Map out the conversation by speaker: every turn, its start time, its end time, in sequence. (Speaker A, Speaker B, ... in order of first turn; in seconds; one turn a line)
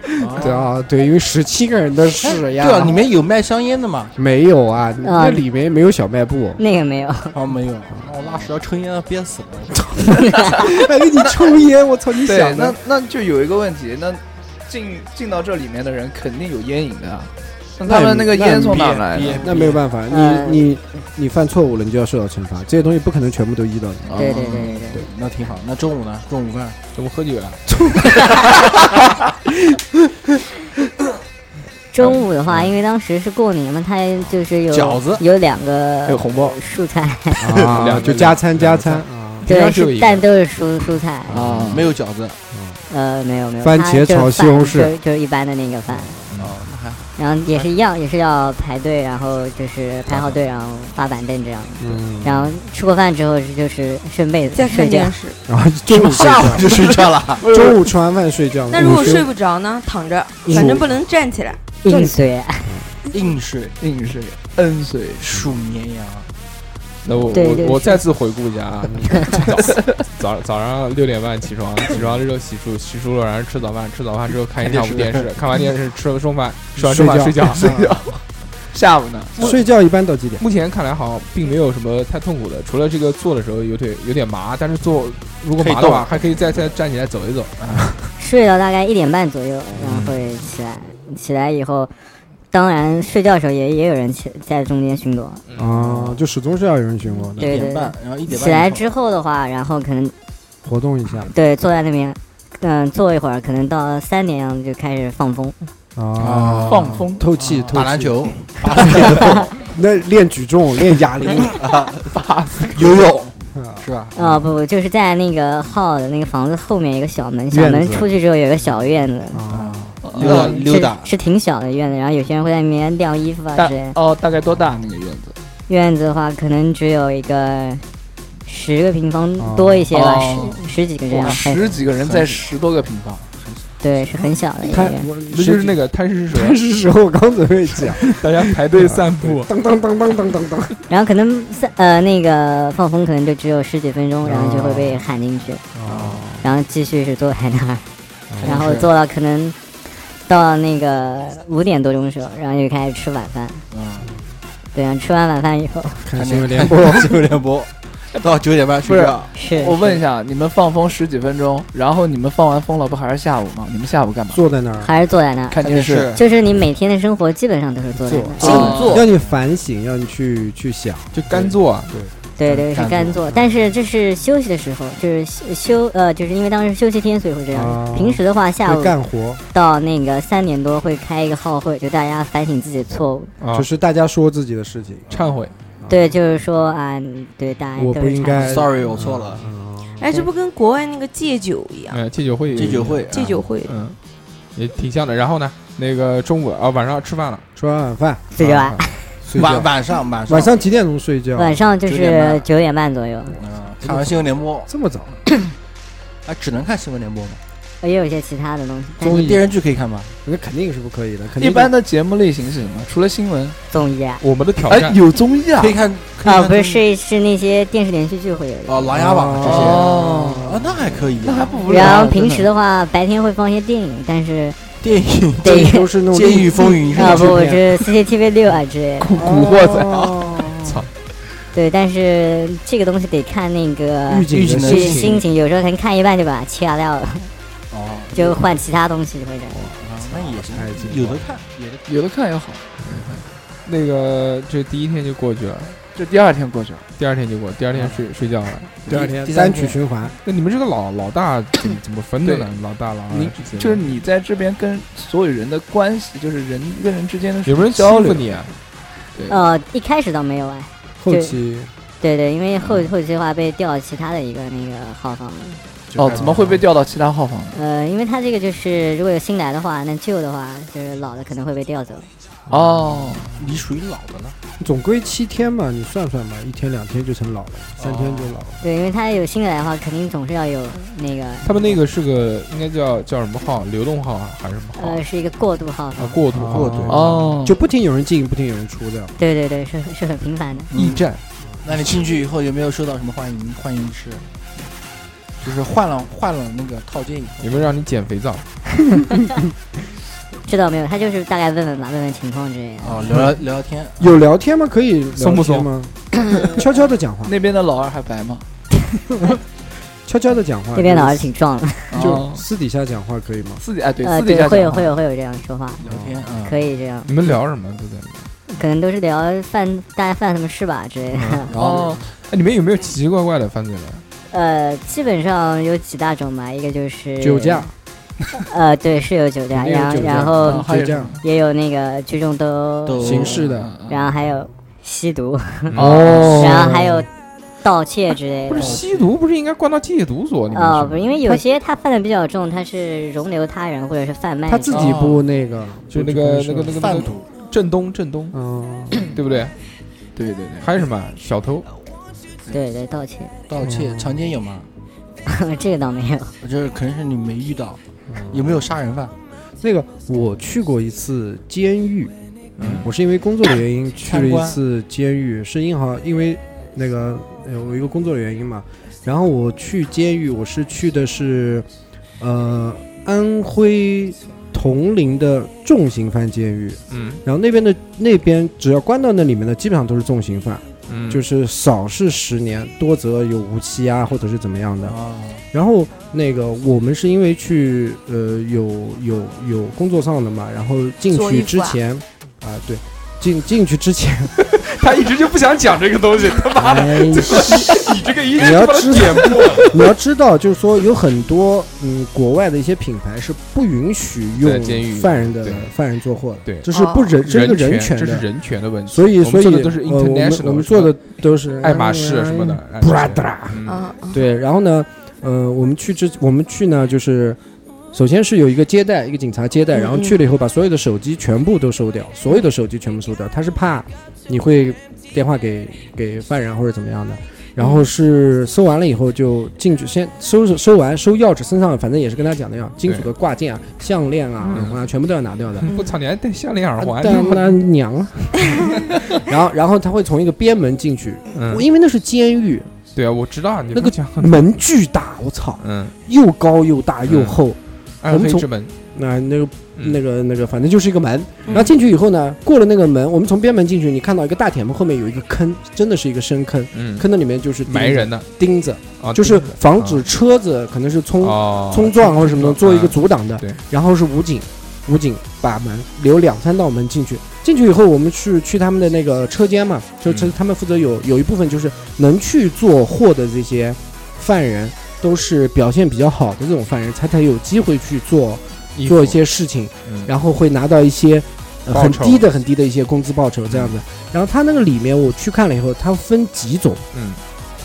Speaker A: 0.2-0.7
Speaker B: 0.2-3.0
Speaker A: 2.2-4.1
Speaker B: 4.2-6.6
Speaker C: 5.0-5.4
Speaker C: 6.6-7.4
Speaker A: 7.3-10.2
Speaker B: 10.0-12.8
Speaker D: 12.2-19.6
Speaker B: 17.9-24.2
Speaker A: 19.1-19.8
Speaker C: 20.1-20.7
Speaker D: 24.1-24.7
Speaker A: 24.1-26.8
Speaker C: 24.1-25.1
Speaker E: 26.9-27.6
Speaker C: 31.9-37.5
Speaker E: 32.0-32.7
Speaker A: 34.7-35.2
Speaker D: 36.1-36.6
Speaker B: 37.4-39.5
Speaker E: 37.7-40.2
Speaker A: 37.8-38.1
Speaker C: 39.5-41.4
Speaker D: 41.3-41.9
Speaker B: 41.4-41.8
Speaker A: 41.7-42.4
Speaker B: 42.5-42.8
Speaker C: 42.9-46.2
Speaker B: 43.6-44.9
Speaker E: 46.3-46.5
Speaker A: 46.4-47.1
Speaker C: 47.2-55.1
Speaker B: 51.8-52.5
Speaker F: 54.5-55.4
Speaker B: 55.5-59.3
Speaker A: 55.9-57.4
Speaker D: 57.4-57.8
Speaker F: 58.7-61.7
Speaker C: 60.5-60.8
Speaker B: 60.5-60.9
Speaker C: 61.8-62.8
Speaker A: 63.1-63.8
Speaker D: 63.8-65.3
Speaker A: 65.2-66.3
Speaker E: 67.0-77.8
Speaker C: 67.3-68.0
Speaker C: 69.1-69.3
Speaker D: 69.7-70.0
Speaker A: 74.6-75.3
Speaker B: 76.8-77.9
Speaker D: 77.5-78.2
Speaker D: 78.7-79.5
Speaker B: 79.4-80.4
Speaker E: 80.4-87.8
Speaker A: 85.6-86.1
Speaker C: 88.2-91.9
Speaker E: 89.8-90.2
Speaker C: 92.5-95.4
Speaker B: 95.6-97.5
Speaker A: 95.7-96.2
Speaker A: 97.3-98.8
Speaker C: 97.4-100.1
Speaker B: 100.6-101.3
Speaker C: 101.3-105.6
Speaker B: 106.0-111.5
Speaker A: 106.2-109.5
Speaker D: 106.7-107.3
Speaker A: 111.4-112.2
Speaker D: 112.2-113.0
Speaker A: 112.7-114.2
Speaker B: 113.5-114.3
Speaker C: 114.1-119.4
Speaker B: 117.5-118.1
Speaker B: 119.3-120.6
Speaker A: 119.5-121.1
Speaker D: 120.0-120.6
Speaker C: 120.3-124.0
Speaker D: 123.6-125.4
Speaker C: 125.7-127.9
Speaker C: 128.5-131.6
Speaker B: 129.4-129.9
Speaker D: 129.9-133.2
Speaker A: 131.5-132.5
Speaker A: 133.1-133.7
Speaker C: 133.8-135.1
Speaker B: 134.6-135.8
Speaker E: 135.3-136.6
Speaker B: 136.3-140.8
Speaker E: 138.0-139.5
Speaker C: 140.9-145.7
Speaker B: 144.2-145.0
Speaker B: 145.8-146.5
Speaker A: 145.9-146.2
Speaker C: 146.4-147.9
Speaker B: 148.3-148.7
Speaker A: 148.4-148.9
Speaker C: 148.4-149.6
Speaker C: 150.3-153.6
Speaker A: 153.7-154.1
Speaker C: 154.7-156.0
Speaker B: 156.0-157.4
Speaker A: 156.2-159.3
Speaker D: 158.8-164.4
Speaker C: 159.3-160.0
Speaker B: 164.3-164.9
Speaker C: 164.8-165.6
Speaker D: 165.5-166.2
Speaker A: 165.6-166.2
Speaker C: 166.2-168.7
Speaker B: 168.0-172.1
Speaker F: 168.4-169.0
Speaker D: 168.4-169.1
Speaker A: 168.5-169.3
Speaker E: 171.1-171.9
Speaker C: 172.4-178.9
Speaker A: 172.5-173.2
Speaker B: 177.5-179.4
Speaker C: 179.5-183.3
Speaker E: 183.4-183.7
Speaker B: 183.5-185.1
Speaker E: 185.1-185.5
Speaker B: 185.8-186.2
Speaker C: 185.9-188.6
Speaker B: 187.8-190.0
Speaker A: 188.4-189.4
Speaker F: 190.0-192.0
Speaker E: 191.9-193.1
Speaker A: 192.5-193.4
Speaker F: 193.1-193.8
Speaker E: 193.6-194.0
Speaker E: 194.6-197.5
Speaker B: 197.6-198.3
Speaker C: 198.4-199.1
Speaker E: 198.4-199.7
Speaker B: 199.3-199.7
Speaker A: 199.4-200.5
Speaker B: 200.3-201.6
Speaker C: 201.4-203.4
Speaker A: 201.8-202.5
Speaker A: 203.4-204.7
Speaker B: 203.8-205.2
Speaker A: 206.2-207.4
Speaker C: 207.8-209.4
Speaker B: 209.0-209.4
Speaker A: 209.0-210.2
Speaker B: 210.2-211.7
Speaker D: 211.4-213.6
Speaker C: 213.7-214.2
Speaker E: 214.2-215.0
Speaker D: 214.7-215.8
Speaker A: 215.6-216.8
Speaker C: 216.2-218.9
Speaker A: 218.7-221.7
Speaker B: 218.9-220.9
Speaker D: 219.4-220.5
Speaker D: 221.2-222.5
Speaker C: 221.7-224.7
Speaker A: 224.8-227.6
Speaker C: 225.4-225.9
Speaker B: 225.4-227.6
Speaker C: 226.9-230.5
Speaker D: 229.0-229.9
Speaker B: 229.2-230.0
Speaker E: 230.6-230.9
Speaker C: 231.5-237.3
Speaker B: 234.1-235.2
Speaker A: 234.3-235.2
Speaker A: 237.7-238.4
Speaker C: 238.1-239.6
Speaker B: 239.5-241.2
Speaker A: 239.8-241.8
Speaker D: 241.9-242.8
Speaker E: 243.7-245.8
Speaker D: 245.9-246.8
Speaker E: 247.0-248.8
Speaker A: 248.8-249.8
Speaker B: 248.9-250.2
Speaker E: 250.2-253.9
Speaker D: 252.2-252.5
Speaker D: 253.1-258.3
Speaker E: 257.5-258.5
Speaker D: 259.1-259.4
Speaker C: 259.3-261.4
Speaker B: 261.0-261.7
Speaker C: 262.0-265.6
Speaker B: 265.9-266.6
Speaker D: 266.0-267.6
Speaker C: 267.5-272.1
Speaker D: 272.5-273.3
Speaker A: 273.3-274.4
Speaker B: 274.6-278.6
Speaker A: 277.8-278.4
Speaker C: 278.6-281.8
Speaker E: 281.4-285.0
Speaker C: 284.8-286.2
Speaker E: 286.0-287.0
Speaker B: 286.3-289.2
Speaker A: 286.4-287.2
Speaker D: 286.9-287.6
Speaker C: 289.2-290.7
Speaker A: 290.7-291.1
Speaker E: 290.8-291.2
Speaker A: 291.6-294.2
Speaker A: 295.4-297.7
Speaker E: 297.4-298.5
Speaker C: 300.4-303.0
Speaker A: 302.8-304.2
Speaker B: 304.0-307.3
Speaker E: 305.2-305.7
Speaker D: 307.2-308.5
Speaker B: 310.0-311.3
Speaker C: 310.8-312.1
Speaker D: 311.9-312.4
Speaker B: 312.0-313.6
Speaker D: 313.6-314.9
Speaker C: 314.0-315.8
Speaker A: 315.8-316.6
Speaker B: 315.9-316.2
Speaker C: 316.4-317.1
Speaker E: 317.1-318.3
Speaker C: 318.5-321.5
Speaker E: 321.1-321.5
Speaker A: 321.5-322.1
Speaker D: 321.6-322.1
Speaker E: 322.3-324.0
Speaker C: 324.3-327.7
Speaker B: 327.2-327.7
Speaker C: 328.4-330.7
Speaker B: 329.5-331.2
Speaker D: 330.4-331.2
Speaker C: 331.2-337.1
Speaker A: 332.9-333.6
Speaker B: 333.0-333.7
Speaker D: 333.6-334.1
Speaker E: 335.7-336.1
Speaker B: 335.8-337.1
Speaker D: 335.8-336.7
Speaker C: 337.6-338.8
Speaker E: 338.5-341.2
Speaker A: 338.6-339.1
Speaker C: 340.5-344.9
Speaker B: 344.5-347.1
Speaker A: 344.7-345.2
Speaker E: 345.9-348.4
Speaker A: 346.7-347.3
Speaker B: 348.3-349.1
Speaker E: 349.0-349.6
Speaker D: 350.2-350.7
Speaker E: 350.6-351.7
Speaker C: 352.5-353.4
Speaker A: 353.5-354.7
Speaker B: 353.6-354.2
Speaker C: 355.2-356.3
Speaker A: 356.4-359.1
Speaker B: 358.1-358.6
Speaker B: 359.6-371.7
Speaker E: 362.6-362.9
Speaker A: 364.0-364.6
Speaker B: 372.2-385.0
Speaker E: 376.9-377.2
Speaker E: 380.9-381.2
Speaker A: 384.9-385.4
Speaker B: 385.5-394.3
Speaker F: 391.1-391.8
Speaker E: 394.4-399.9
Speaker B: 396.6-408.3
Speaker E: 404.4-405.7
Speaker F: 406.7-407.1
Speaker E: 407.2-411.0
Speaker B: 408.9-417.4
Speaker E: 411.6-413.9
Speaker F: 413.7-414.2
Speaker B: 417.9-435.7
Speaker F: 419.7-420.2
Speaker F: 427.6-427.9
Speaker E: 434.4-434.8
Speaker E: 435.6-437.6
Speaker F: 435.7-435.9
Speaker B: 436.8-442.8
Speaker E: 441.3-441.7
Speaker E: 442.9-444.5
Speaker B: 443.7-486.9
Speaker E: 445.6-445.9
Speaker E: 447.1-447.4
Speaker E: 448.0-448.7
Speaker E: 451.5-451.7
Speaker E: 456.7-457.1
Speaker E: 457.7-458.3
Speaker E: 459.0-460.1
Speaker E: 461.2-463.6
Speaker E: 470.1-470.3
Speaker E: 478.8-479.2
Speaker E: 479.9-480.1
Speaker E: 481.7-482.2
Speaker E: 483.5-483.8
Speaker E: 486.9-487.2